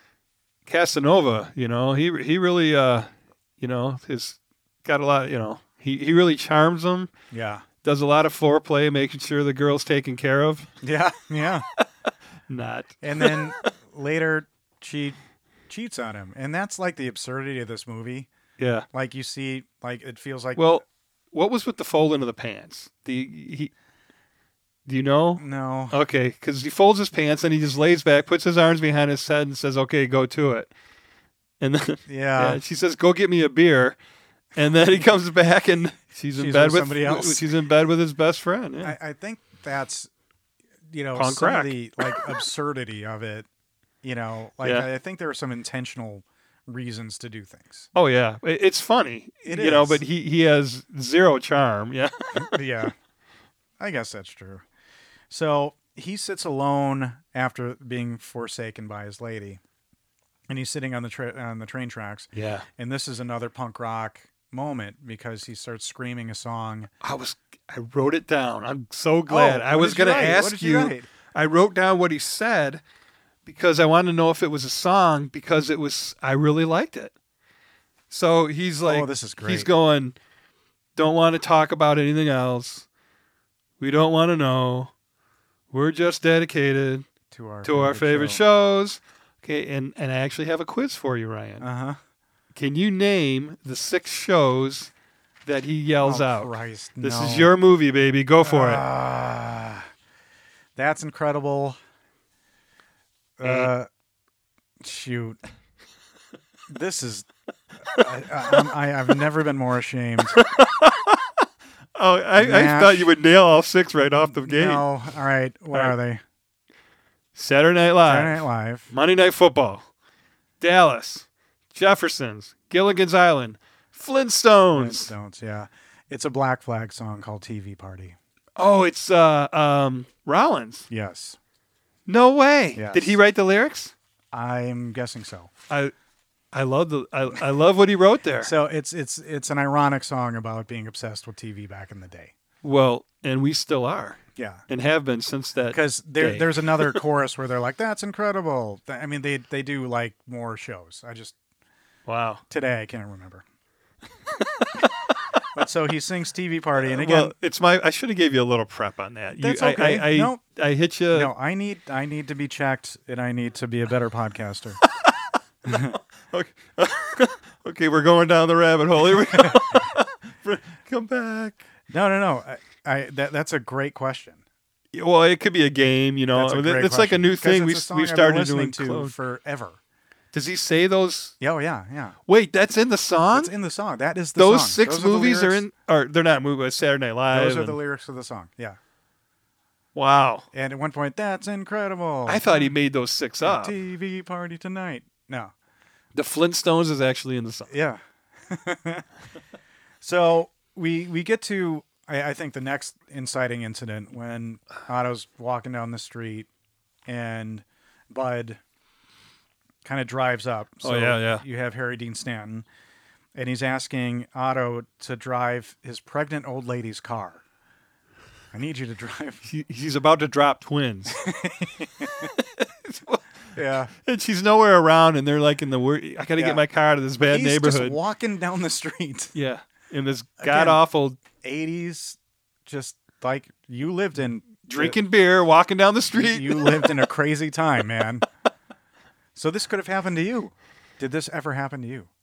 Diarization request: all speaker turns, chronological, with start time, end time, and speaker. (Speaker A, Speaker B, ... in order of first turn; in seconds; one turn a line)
Speaker A: 0.7-7.1
Speaker B: 7.3-7.6
Speaker A: 7.8-10.7
Speaker B: 10.8-11.7
Speaker A: 12.5-13.7
Speaker B: 13.0-15.2
Speaker B: 15.7-18.3
Speaker A: 18.6-18.9
Speaker B: 18.9-20.8
Speaker A: 20.6-23.7
Speaker A: 24.9-30.7
Speaker B: 25.4-25.9
Speaker A: 31.6-34.0
Speaker B: 32.1-32.6
Speaker A: 34.5-38.9
Speaker B: 36.4-37.5
Speaker B: 38.8-40.1
Speaker B: 40.9-43.5
Speaker A: 41.1-42.3
Speaker B: 44.0-47.9
Speaker A: 44.6-44.9
Speaker A: 47.9-52.6
Speaker B: 49.4-50.0
Speaker B: 52.4-52.9
Speaker B: 53.8-54.6
Speaker B: 55.3-59.6
Speaker B: 60.5-66.9
Speaker A: 62.3-62.6
Speaker A: 67.0-72.8
Speaker B: 69.3-71.1
Speaker A: 73.5-77.1
Speaker A: 78.1-80.2
Speaker B: 78.8-79.7
Speaker A: 81.0-82.8
Speaker A: 83.8-84.9
Speaker A: 85.7-87.1
Speaker B: 87.3-88.4
Speaker A: 87.6-91.7
Speaker B: 91.6-92.0
Speaker A: 92.5-94.9
Speaker A: 95.4-98.8
Speaker B: 96.0-97.5
Speaker B: 98.4-99.9
Speaker B: 100.8-101.8
Speaker B: 103.4-103.9
Speaker A: 103.4-103.7
Speaker B: 104.8-105.4
Speaker B: 106.7-107.3
Speaker B: 107.9-110.4
Speaker A: 110.3-111.3
Speaker A: 111.9-114.8
Speaker B: 112.4-113.1
Speaker B: 114.2-116.2
Speaker A: 117.3-119.9
Speaker B: 118.0-118.9
Speaker A: 120.6-125.1
Speaker B: 124.7-128.2
Speaker A: 128.6-130.9
Speaker B: 130.9-131.4
Speaker A: 132.1-133.9
Speaker B: 132.7-133.2
Speaker B: 134.3-135.5
Speaker A: 135.7-135.9
Speaker A: 136.5-138.5
Speaker B: 138.4-142.3
Speaker A: 142.6-147.0
Speaker B: 144.3-144.6
Speaker B: 145.7-151.4
Speaker A: 152.1-152.4
Speaker B: 152.5-153.4
Speaker A: 154.3-154.9
Speaker B: 155.5-157.3
Speaker A: 156.8-161.3
Speaker B: 159.4-160.4
Speaker B: 161.1-164.8
Speaker A: 164.9-171.6
Speaker B: 165.6-166.0
Speaker B: 169.1-169.8
Speaker B: 171.9-174.4
Speaker A: 174.9-179.1
Speaker B: 176.3-179.8
Speaker A: 180.3-181.3
Speaker B: 181.4-182.2
Speaker A: 182.3-183.5
Speaker B: 183.3-185.6
Speaker A: 184.3-187.8
Speaker B: 187.3-188.8
Speaker A: 189.9-190.5
Speaker B: 190.5-192.7
Speaker A: 192.3-193.7
Speaker B: 193.4-195.5
Speaker A: 196.1-197.7
Speaker B: 197.7-199.1
Speaker B: 200.0-206.5
Speaker B: 207.1-208.6
Speaker B: 209.8-212.7
Speaker A: 210.8-211.4
Speaker B: 213.3-217.4
Speaker B: 218.5-219.4
Speaker A: 219.4-221.2
Speaker B: 221.1-222.3
Speaker A: 222.2-223.2
Speaker B: 223.5-223.9
Speaker A: 223.9-228.0
Speaker B: 226.4-226.6
Speaker B: 227.2-229.3
Speaker A: 229.3-231.2
Speaker B: 230.4-230.8
Speaker B: 231.4-235.0
Speaker A: 234.7-237.0
Speaker B: 236.1-238.2
Speaker B: 239.3-242.1